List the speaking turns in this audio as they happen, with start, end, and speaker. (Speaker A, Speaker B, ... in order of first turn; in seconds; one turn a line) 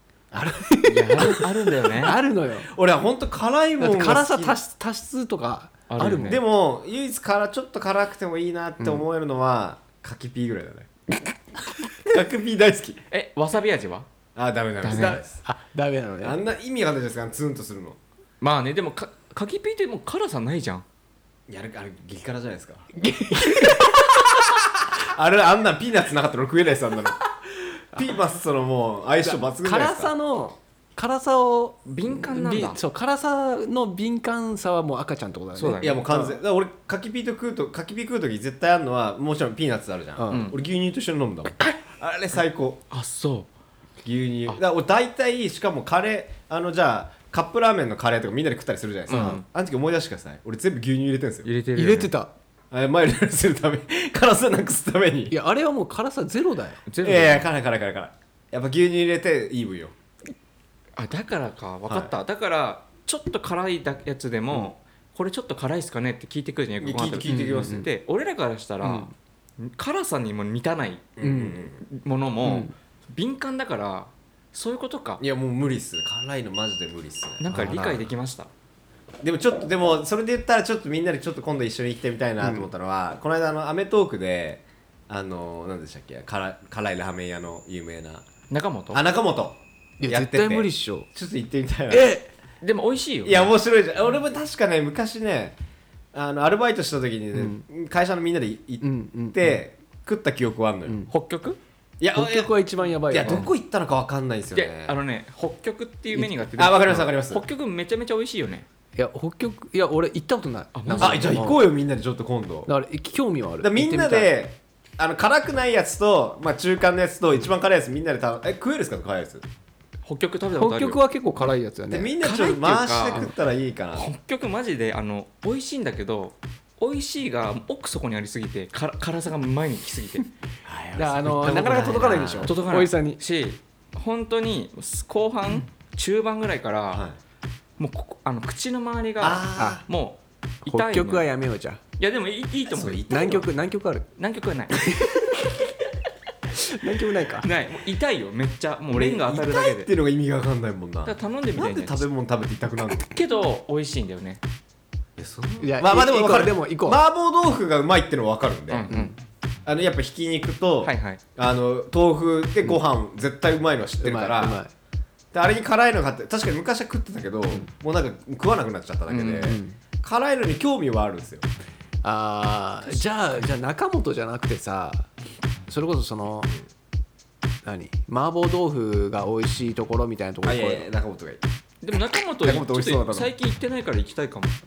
Speaker A: 0.3-2.7
Speaker B: 0.8-2.2
Speaker C: 2.7-4.6
Speaker A: 3.8-6.4
Speaker B: 5.9-6.4
Speaker C: 6.2-10.9
Speaker C: 12.0-13.0
Speaker B: 13.1-14.1
Speaker C: 14.4-15.4
Speaker B: 14.8-15.2
Speaker A: 14.8-16.4
Speaker C: 16.2-18.0
Speaker B: 18.4-20.9
Speaker C: 21.5-22.9
Speaker A: 23.0-24.1
Speaker C: 24.5-27.2
Speaker C: 27.9-30.1
Speaker A: 29.2-36.4
Speaker B: 31.9-32.8
Speaker B: 35.5-36.0
Speaker C: 35.8-42.8
Speaker A: 40.2-40.5
Speaker B: 40.3-40.6
Speaker B: 42.9-43.5
Speaker C: 44.0-51.5
Speaker A: 49.1-49.4
Speaker B: 49.1-49.4
Speaker B: 51.5-52.1
Speaker A: 51.8-52.3
Speaker C: 52.7-55.4
Speaker A: 55.3-56.8
Speaker B: 56.9-57.5
Speaker C: 57.0-59.9
Speaker B: 61.0-71.1
Speaker C: 66.8-67.9
Speaker A: 67.3-67.9
Speaker A: 68.8-69.1
Speaker C: 71.2-71.8
Speaker A: 71.2-71.6
Speaker B: 71.8-75.2
Speaker A: 72.4-72.7
Speaker C: 75.2-77.8
Speaker B: 77.4-78.5
Speaker A: 77.5-78.0
Speaker C: 79.2-88.3
Speaker B: 88.5-89.0
Speaker C: 88.9-92.1
Speaker A: 90.0-91.1
Speaker A: 91.9-92.3
Speaker B: 92.6-93.5
Speaker C: 93.2-95.6
Speaker C: 96.1-101.0
Speaker A: 97.3-97.7
Speaker A: 98.8-99.4
Speaker B: 101.1-101.6
Speaker C: 102.0-105.0
Speaker A: 102.1-103.5
Speaker B: 104.5-108.7
Speaker C: 106.6-107.4
Speaker A: 109.0-111.6
Speaker B: 110.8-111.5
Speaker C: 111.0-112.7
Speaker A: 112.7-114.3
Speaker C: 113.6-119.5
Speaker B: 120.0-121.0
Speaker A: 120.6-122.1
Speaker C: 121.9-124.1
Speaker B: 122.2-123.3
Speaker B: 124.0-130.2
Speaker C: 130.7-132.5
Speaker A: 131.0-133.2
Speaker B: 132.4-137.1
Speaker C: 136.9-137.2
Speaker B: 137.8-141.3
Speaker C: 139.2-139.8
Speaker A: 140.7-141.8
Speaker B: 142.0-143.0
Speaker C: 142.7-143.5
Speaker A: 143.1-144.1
Speaker B: 144.2-144.9
Speaker A: 144.7-145.5
Speaker A: 146.7-147.5
Speaker B: 147.4-149.9
Speaker C: 148.9-153.1
Speaker B: 151.1-152.0
Speaker B: 152.9-154.4
Speaker C: 155.2-158.9
Speaker A: 155.6-157.0
Speaker B: 158.7-159.1
Speaker A: 158.9-159.2
Speaker C: 159.7-164.6
Speaker B: 160.8-161.2
Speaker A: 164.0-164.7
Speaker C: 165.3-171.5
Speaker B: 169.1-169.6
Speaker A: 169.4-169.8
Speaker A: 172.0-175.1
Speaker A: 175.7-176.5
Speaker A: 177.6-180.9
Speaker C: 180.4-181.4
Speaker B: 181.8-184.6
Speaker C: 182.4-183.3